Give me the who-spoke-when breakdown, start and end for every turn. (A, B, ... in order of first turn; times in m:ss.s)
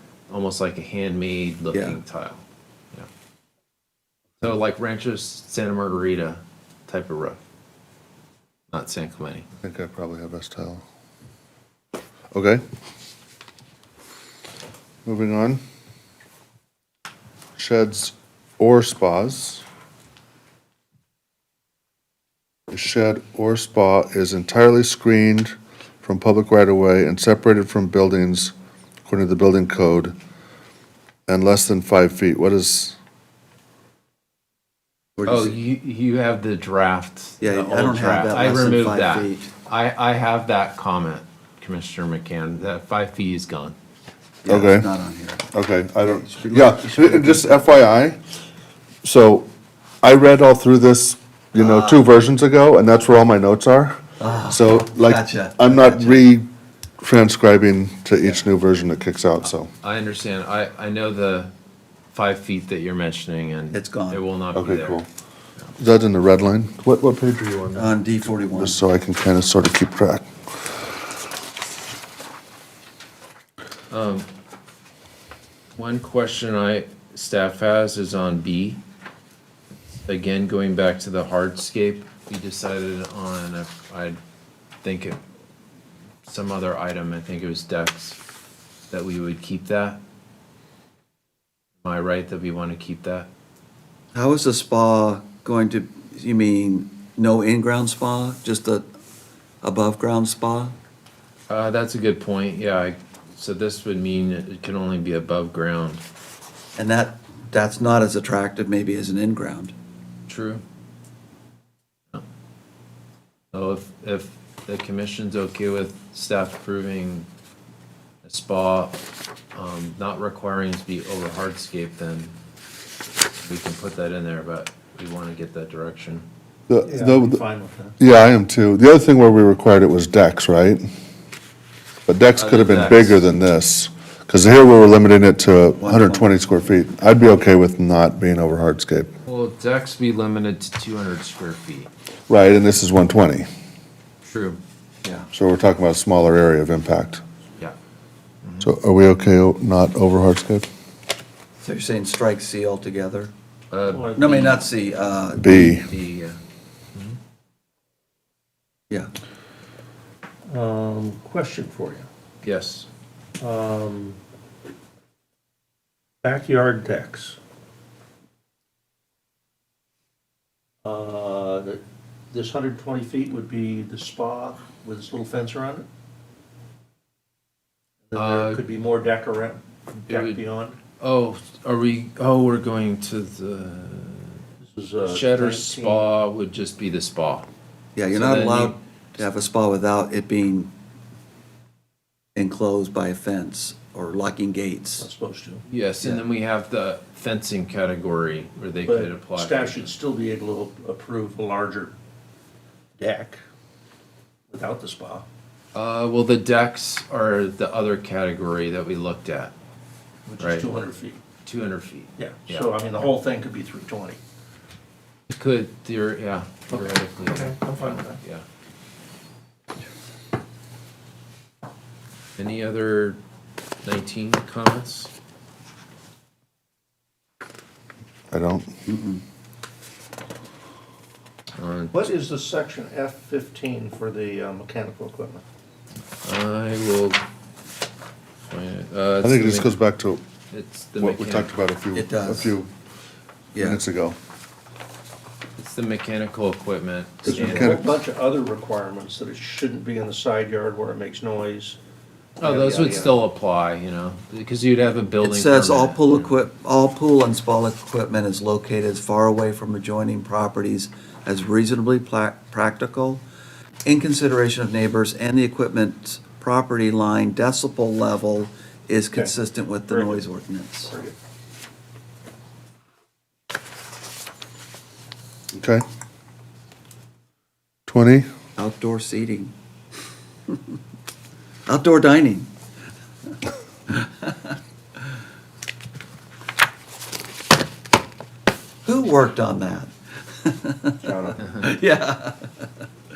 0:00.3-0:03.1 A
0:01.7-0:02.0 B
0:04.4-0:07.4 A
0:08.7-0:09.4 A
0:09.6-0:10.8 C
0:12.3-0:12.6 C
0:15.0-0:15.6 C
0:17.6-0:19.6 C
0:22.7-0:28.5 C
0:29.0-0:30.1 C
0:31.3-0:33.0 C
0:35.2-0:35.6 B
0:35.2-0:43.8 A
0:37.4-0:39.5 B
0:44.4-0:45.5 B
0:44.5-0:44.8 C
0:45.5-0:48.2 C
0:46.0-0:47.7 B
0:49.0-0:49.4 C
0:50.0-0:56.4 C
0:51.5-0:52.2 B
0:54.2-0:56.3 B
0:57.0-0:59.7 C
0:59.8-1:01.5 A
1:02.1-1:05.0 A
1:03.7-1:04.2 B
1:04.5-1:05.0 C
1:05.8-1:07.8 C
1:07.7-1:08.8 B
1:08.6-1:10.3 C
1:13.9-1:14.3 A
1:15.7-1:18.8 A
1:20.0-1:24.2 A
1:24.8-1:25.2 A
1:26.2-1:28.2 A
1:28.9-1:30.0 A
1:31.8-1:33.3 A
1:34.1-1:38.8 B
1:39.6-1:40.7 B
1:41.5-1:46.0 A
1:46.8-1:49.7 B
1:50.3-1:50.6 A
1:53.5-1:57.3 A
1:58.2-1:59.0 A
1:59.5-2:02.3 A
2:03.4-2:06.2 A
2:06.7-2:07.4 C
2:06.8-2:08.0 D
2:08.0-2:10.8 C
2:12.1-2:19.1 C
2:12.4-2:13.3 A
2:15.8-2:16.4 B
2:19.2-2:21.9 A
2:22.3-2:23.4 C
2:24.3-2:24.6 A
2:25.3-2:27.2 C
2:28.4-2:28.7 A
2:28.6-2:30.6 C
2:31.6-2:33.3 B
2:33.7-2:34.7 A
2:33.9-2:34.6 D
2:34.2-2:35.8 B
2:35.4-2:36.4 A
2:35.4-2:35.9 C
2:40.5-2:42.1 D
2:42.4-2:42.9 A
2:43.4-2:44.2 D
2:46.2-2:47.4 D
2:50.8-2:55.9 D
2:58.1-3:00.8 D
2:58.1-2:58.6 A
2:59.9-3:00.4 A
3:01.0-3:04.4 A
3:04.6-3:06.0 D
3:05.1-3:07.5 A
3:08.0-3:10.7 B
3:08.1-3:08.8 A
3:12.4-3:15.1 B
3:15.0-3:15.6 D
3:15.7-3:19.9 A
3:18.8-3:21.9 D
3:23.0-3:23.4 D
3:24.5-3:25.2 D
3:25.7-3:29.5 A
3:30.3-3:31.2 D
3:30.4-3:30.7 A
3:31.4-3:32.7 A
3:32.2-3:34.2 D
3:35.3-3:38.4 A
3:36.7-3:38.2 D
3:42.4-3:43.2 A
3:43.8-3:45.1 A
3:48.3-3:48.6 C
3:48.8-3:49.2 B
3:51.6-3:52.0 A
3:51.9-3:55.4 D
3:56.2-3:57.2 A
3:58.5-3:59.7 A
3:59.2-4:00.2 C
4:00.5-4:01.5 A
4:01.0-4:02.7 C
4:01.9-4:02.6 B
4:03.5-4:03.9 B
4:03.7-4:04.2 C
4:05.6-4:07.9 A
4:07.2-4:11.8 D
4:07.3-4:07.7 C
4:12.4-4:13.2 D
4:12.4-4:16.4 A
4:15.2-4:23.2 B
4:23.8-4:30.9 B
4:29.9-4:30.2 D
4:30.9-4:31.1 D
4:37.9-4:38.2 C
4:38.6-4:39.5 B
4:41.7-4:42.5 B
4:43.9-4:44.6 B
4:48.8-4:52.7 B
4:51.0-4:51.4 D